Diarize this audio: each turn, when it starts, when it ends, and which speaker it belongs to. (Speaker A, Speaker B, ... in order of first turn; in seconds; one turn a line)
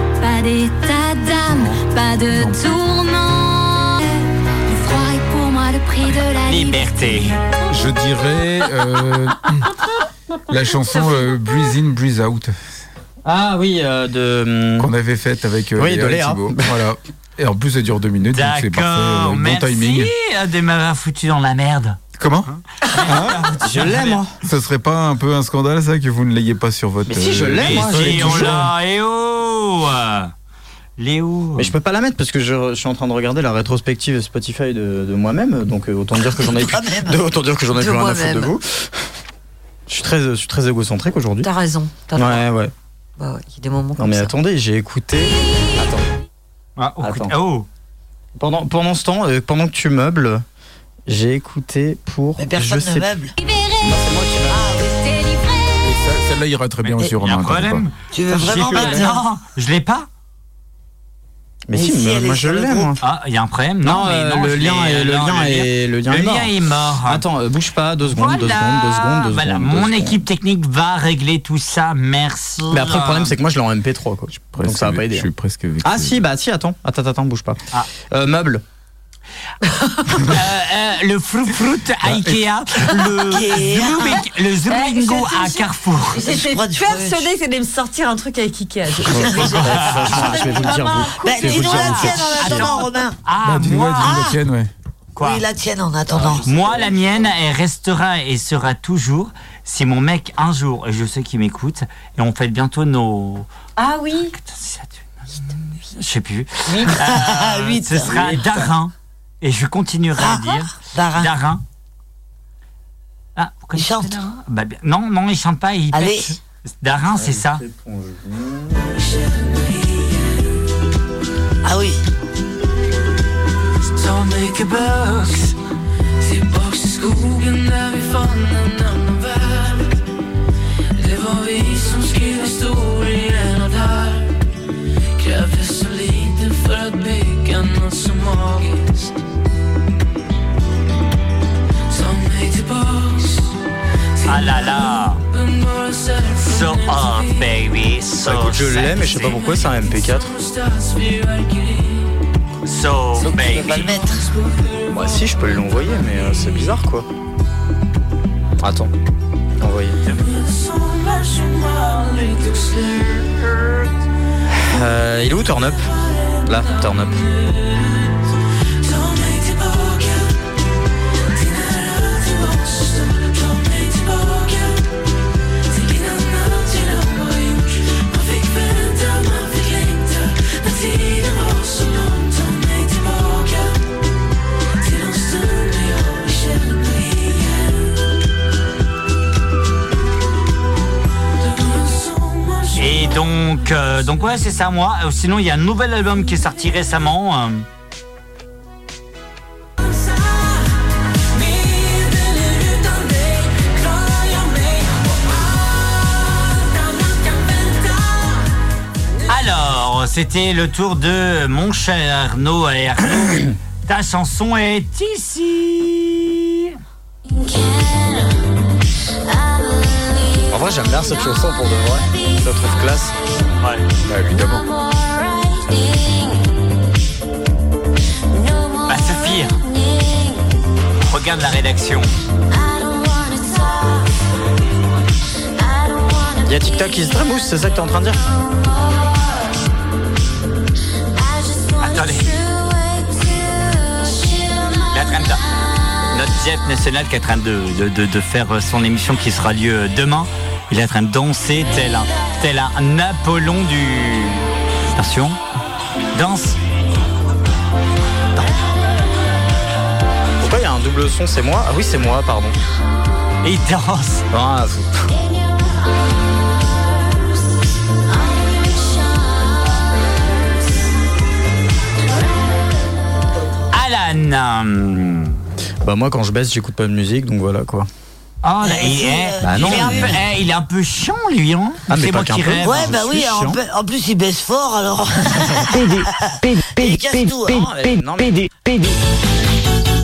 Speaker A: 0.6-1.8
Speaker B: 1.5-2.7
Speaker C: 2.0-2.6
Speaker A: 2.3-3.5
Speaker A: 4.7-6.9
Speaker D: 6.5-7.4
Speaker B: 7.7-9.7
Speaker B: 10.5-12.5
Speaker E: 13.2-14.9
Speaker B: 14.8-20.1
Speaker E: 15.8-16.8
Speaker D: 18.3-22.0
Speaker B: 22.2-22.5
Speaker D: 22.9-24.2
Speaker B: 23.1-23.5
Speaker E: 23.6-24.4
Speaker B: 24.4-28.7
Speaker E: 27.1-28.7
Speaker D: 27.6-30.3
Speaker D: 31.0-31.7
Speaker E: 31.6-38.9
Speaker F: 36.2-37.2
Speaker C: 37.7-38.5
Speaker E: 39.9-41.5
Speaker C: 41.4-42.5
Speaker E: 42.1-42.7
Speaker C: 43.2-44.3
Speaker E: 44.0-46.1
Speaker D: 46.8-47.7
Speaker E: 47.0-47.3
Speaker E: 48.4-50.4
Speaker E: 51.1-53.1
Speaker F: 52.4-53.3
Speaker A: 53.5-53.8
Speaker E: 53.8-54.8
Speaker A: 55.0-55.7
Speaker B: 55.8-57.9
Speaker D: 57.2-60.1
Speaker F: 58.1-59.2
Speaker E: 61.7-63.0
Speaker F: 61.7-63.0
Speaker D: 63.0-67.2
Speaker E: 63.8-70.2
Speaker D: 68.1-73.3
Speaker E: 72.7-75.3
Speaker B: 74.3-76.2
Speaker E: 75.8-78.6
Speaker C: 79.7-80.2
Speaker D: 80.3-86.2
Speaker B: 82.0-82.4
Speaker F: 83.2-84.2
Speaker C: 84.7-92.6
Speaker F: 86.2-87.3
Speaker E: 89.1-92.3
Speaker F: 89.1-89.6
Speaker D: 89.3-90.4
Speaker F: 91.2-93.2
Speaker D: 91.4-94.3
Speaker B: 93.4-94.7
Speaker F: 94.0-94.4
Speaker D: 95.2-95.4
Speaker F: 95.2-96.7
Speaker D: 96.4-103.5
Speaker E: 96.5-97.2
Speaker C: 103.8-104.3
Speaker D: 104.3-105.0
Speaker D: 105.9-111.6
Speaker F: 106.7-108.4
Speaker E: 108.1-108.7
Speaker F: 110.2-111.4
Speaker D: 113.4-117.6
Speaker F: 113.8-114.2
Speaker F: 115.9-116.3
Speaker E: 117.2-118.9
Speaker F: 121.6-122.0
Speaker G: 124.0-124.5
Speaker G: 126.3-129.9
Speaker G: 131.0-134.2
Speaker G: 135.2-139.0
Speaker G: 141.9-143.2
Speaker D: 144.2-145.2
Speaker G: 145.8-146.3
Speaker D: 146.4-149.7
Speaker E: 148.2-150.3
Speaker G: 150.6-151.8
Speaker D: 152.7-154.1
Speaker F: 153.2-154.3
Speaker E: 154.9-157.1
Speaker E: 158.6-158.9
Speaker E: 159.6-160.0
Speaker G: 161.2-162.8
Speaker E: 164.6-165.9
Speaker E: 166.4-167.3
Speaker D: 192.7-197.7
Speaker D: 209.3-216.7
Speaker E: 220.5-223.2
Speaker B: 224.1-224.7
Speaker D: 228.9-229.6
Speaker D: 231.0-232.1
Speaker E: 236.4-238.2
Speaker D: 241.8-242.3
Speaker D: 244.9-245.4
Speaker D: 246.1-255.4
Speaker D: 256.1-256.6
Speaker E: 260.4-262.6
Speaker D: 263.4-264.3
Speaker E: 264.3-265.0
Speaker D: 273.7-275.4
Speaker E: 275.8-277.9
Speaker D: 278.4-283.0
Speaker F: 278.6-280.2
Speaker E: 279.4-280.2
Speaker E: 281.9-283.6
Speaker F: 282.6-287.7
Speaker E: 287.5-288.8